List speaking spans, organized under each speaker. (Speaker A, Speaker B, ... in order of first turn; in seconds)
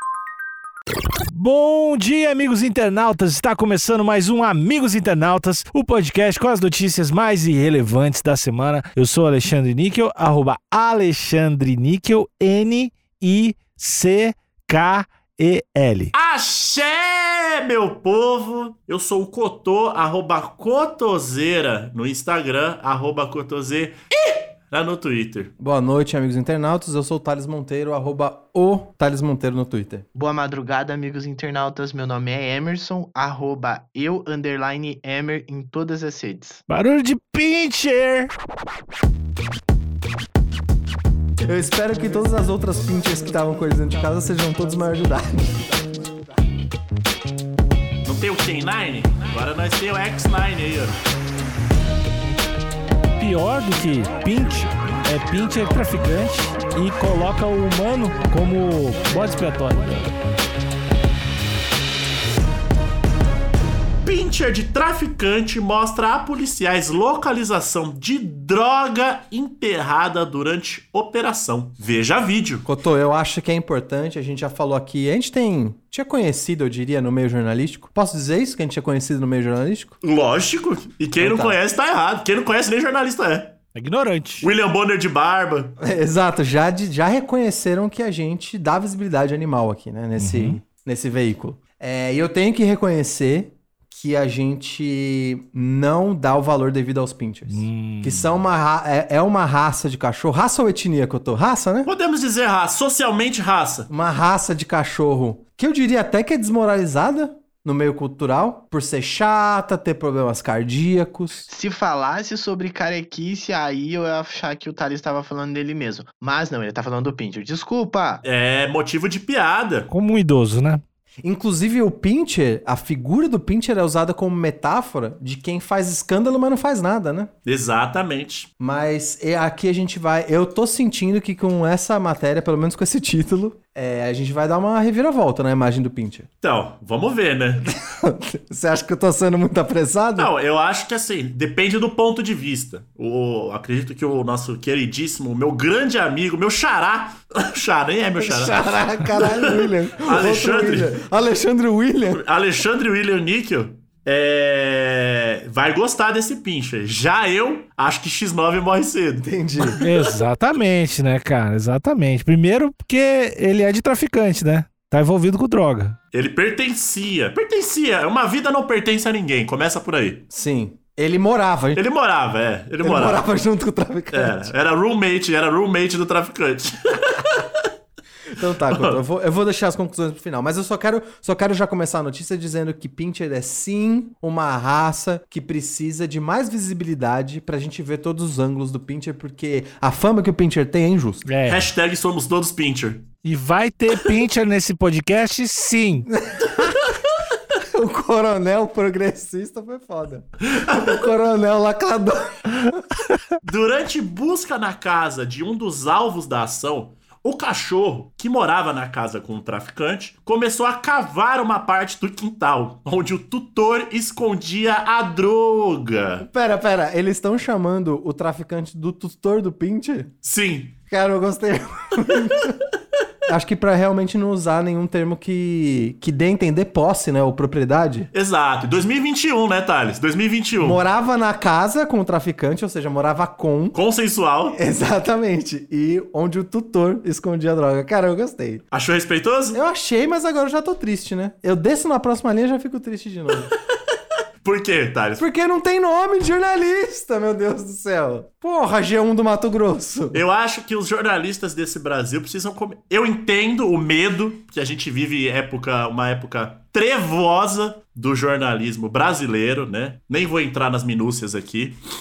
Speaker A: 1.3-16.1, 36.7-38.3, 53.2-60.1, 83.7-84.5, 90.2-90.6, 97.5-98.3, 119.9-120.8, 159.8-166.0, 191.2-191.6, 193.2-196.1
Speaker B: 16.1-25.5, 48.0-51.0, 64.0-72.7, 80.0-83.6, 84.4-85.7, 101.8-103.9, 118.2-119.9, 127.5-128.5, 136.4-137.7, 140.2-150.9, 152.1-160.0, 166.1-170.2, 171.7-173.2, 174.1-177.7, 178.7-179.0, 191.5-193.1, 200.5-200.9, 203.4-216.2, 220.2-220.8, 228.1-230.8, 233.7-234.6, 238.7-239.6, 244.4-245.2, 250.1-261.8
Speaker C: 25.6-30.0, 41.4-45.7, 72.6-80.0, 81.2-81.6, 85.8-101.9, 103.9-111.5, 121.2-127.3, 128.6-136.3, 137.7-140.3, 148.2-152.2, 159.2-159.8, 170.3-171.8, 172.8-174.5, 178.3-191.2, 196.1-196.8, 197.6-202.8, 216.2-220.1, 220.9-222.6, 223.3-228.1, 230.6-233.8, 234.5-238.6, 239.5-243.5, 245.2-250.2
Speaker D: 30.1-36.6, 111.5-118.2